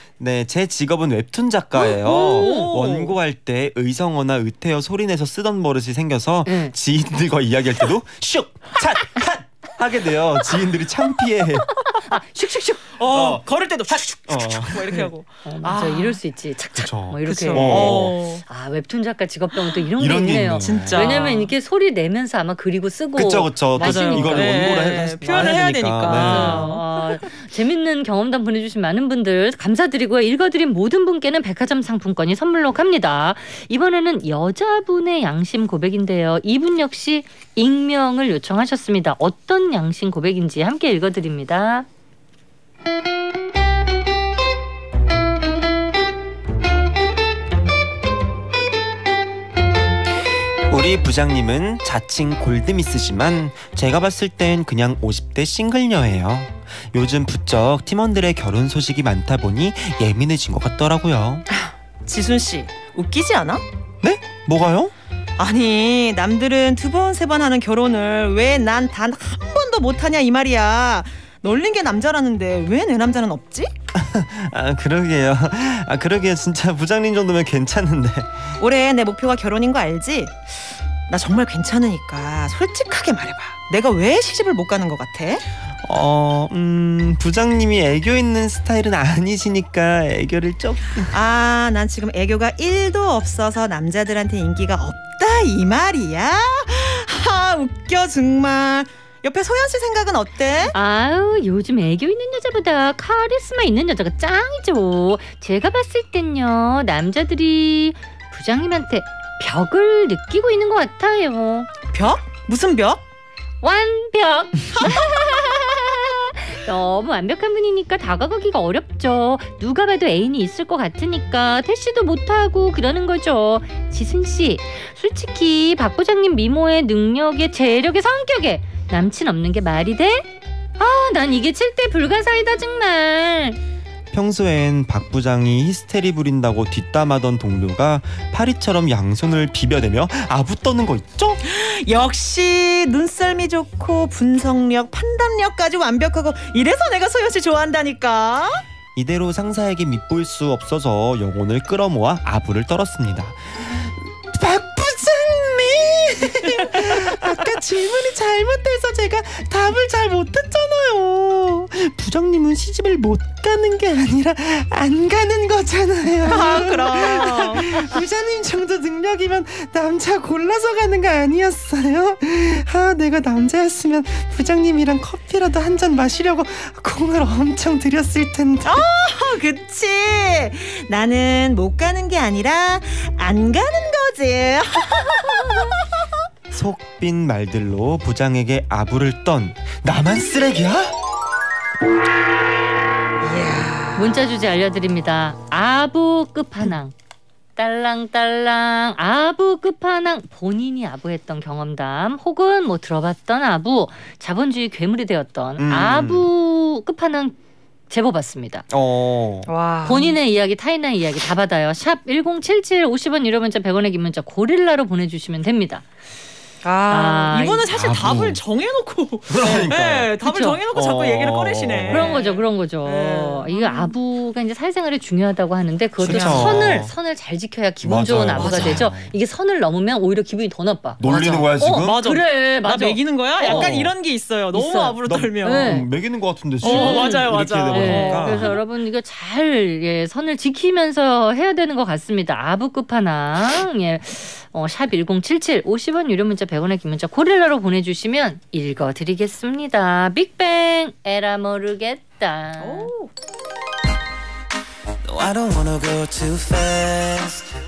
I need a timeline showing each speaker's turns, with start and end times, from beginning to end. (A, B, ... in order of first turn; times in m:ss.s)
0:00.2-0:11.7 A
0:01.8-0:03.1 B
0:02.1-0:02.7 C
0:06.4-0:06.7 C
0:12.0-0:12.8 C
0:13.0-0:16.2 B
0:13.1-0:15.1 A
0:15.4-0:41.8 C
0:16.8-0:18.1 A
0:17.2-0:18.4 B
0:20.0-0:21.2 A
0:20.6-0:21.5 B
0:23.2-0:26.7 A
0:23.8-0:27.2 B
0:50.7-1:01.4 A
1:01.5-1:03.6 B
1:04.0-1:04.9 A
1:05.4-1:13.7 B
1:13.9-1:18.6 A
1:18.6-1:25.4 B
1:25.8-1:31.1 A
1:31.1-1:40.7 B
1:40.7-1:51.7 C
1:51.9-1:53.0 B
1:53.6-2:10.3 C
2:10.8-2:13.6 C
2:14.1-2:21.4 A
2:21.4-2:28.6 B
2:28.9-2:58.9 A
2:46.2-2:47.9 B
2:58.6-3:06.0 B
3:05.2-3:05.7 C
3:06.5-3:10.9 A
3:13.2-3:14.2 B
3:14.0-3:16.9 C
3:17.6-3:27.4 C
3:25.6-3:26.3 A
3:27.9-3:28.6 C
3:28.7-3:29.5 A
3:29.5-3:30.2 B
3:29.8-3:35.8 C
3:36.6-3:43.9 B
3:36.9-3:37.7 C
3:37.7-3:38.4 A
3:39.3-3:40.1 A
3:40.2-3:40.6 C
3:40.7-3:42.2 A
3:41.9-3:53.7 C
3:46.0-3:46.9 A
3:46.0-3:46.8 B
3:47.8-3:49.1 A
3:48.3-3:48.9 B
3:51.0-3:52.0 A
3:51.0-3:55.8 B
3:53.4-3:53.9 A
3:54.5-3:55.9 C
3:55.0-3:58.5 A
3:56.6-3:58.6 B
3:56.6-4:12.9 C
4:12.6-4:13.1 B
4:15.0-4:17.5 D